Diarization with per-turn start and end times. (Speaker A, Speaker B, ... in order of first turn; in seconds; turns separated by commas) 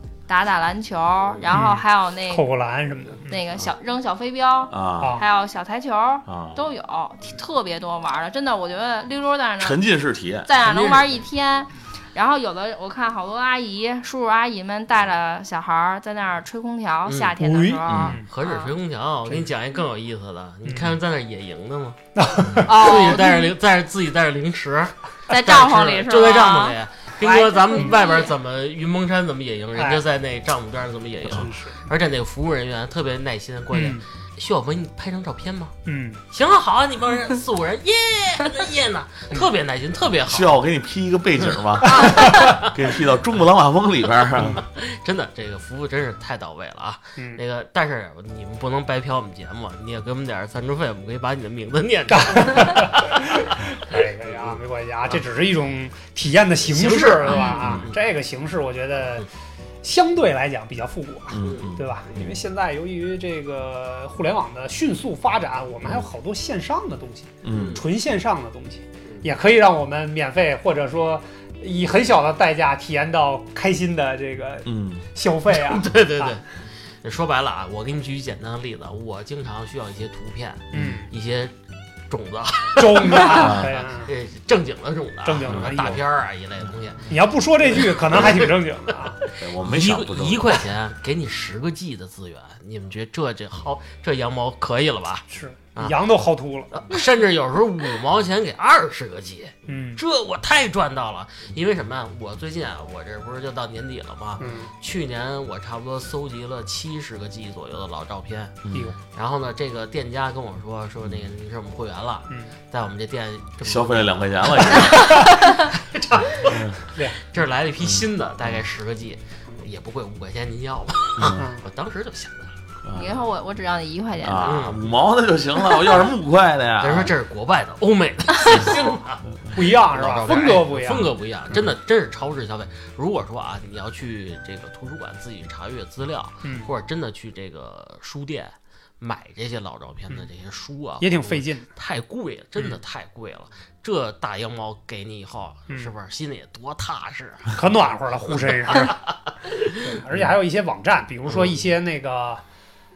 Speaker A: 0.3-2.5, Speaker B: 1.5-3.3, Speaker A: 3.2-9.8, Speaker C: 4.7-5.2, Speaker C: 6.3-6.6, Speaker C: 9.6-10.5, Speaker A: 10.4-18.7, Speaker D: 10.6-11.2, Speaker D: 17.0-17.3, Speaker B: 17.4-18.3, Speaker C: 17.9-18.2, Speaker D: 18.2-22.0, Speaker B: 20.6-20.9, Speaker B: 22.1-23.2, Speaker D: 22.5-35.7, Speaker A: 22.6-23.5, Speaker A: 25.3-26.8, Speaker B: 27.2-27.9, Speaker A: 27.6-28.4, Speaker B: 29.8-30.0, Speaker B: 31.3-31.8, Speaker B: 33.7-34.0, Speaker B: 35.9-36.2, Speaker D: 36.3-40.6, Speaker C: 40.2-44.6, Speaker B: 42.0-42.6, Speaker D: 42.0-42.6, Speaker D: 44.5-53.1, Speaker B: 52.1-59.3, Speaker D: 53.9-54.6, Speaker D: 56.6-58.0, Speaker A: 57.2-57.7, Speaker B: 59.8-76.4, Speaker C: 61.3-62.3, Speaker D: 61.4-61.7, Speaker C: 67.4-67.8, Speaker D: 67.5-67.8, Speaker C: 74.6-75.0, Speaker D: 75.5-81.5, Speaker B: 80.7-81.1, Speaker C: 80.7-81.0, Speaker D: 82.1-87.1, Speaker B: 82.8-84.1, Speaker C: 83.3-83.8, Speaker B: 85.2-86.0, Speaker C: 85.5-85.9, Speaker B: 87.1-89.2, Speaker D: 87.8-88.6, Speaker D: 89.2-96.0, Speaker C: 89.4-90.6, Speaker B: 95.3-96.7, Speaker D: 96.7-108.6, Speaker B: 99.7-100.0, Speaker B: 104.4-104.7, Speaker B: 108.7-109.0, Speaker D: 109.1-122.5, Speaker C: 113.6-115.3, Speaker B: 115.0-115.3, Speaker C: 116.4-116.8, Speaker B: 116.9-117.2, Speaker C: 117.8-118.6, Speaker C: 121.2-121.4, Speaker B: 121.3-121.6, Speaker C: 122.8-123.2, Speaker A: 122.9-124.7, Speaker C: 124.2-127.1, Speaker D: 124.4-124.8, Speaker D: 126.8-147.6, Speaker B: 128.5-129.0, Speaker B: 129.5-131.1, Speaker B: 136.4-136.7, Speaker B: 141.0-141.7, Speaker B: 147.5-148.9, Speaker D: 148.4-149.8, Speaker B: 149.8-152.4, Speaker D: 151.3-151.6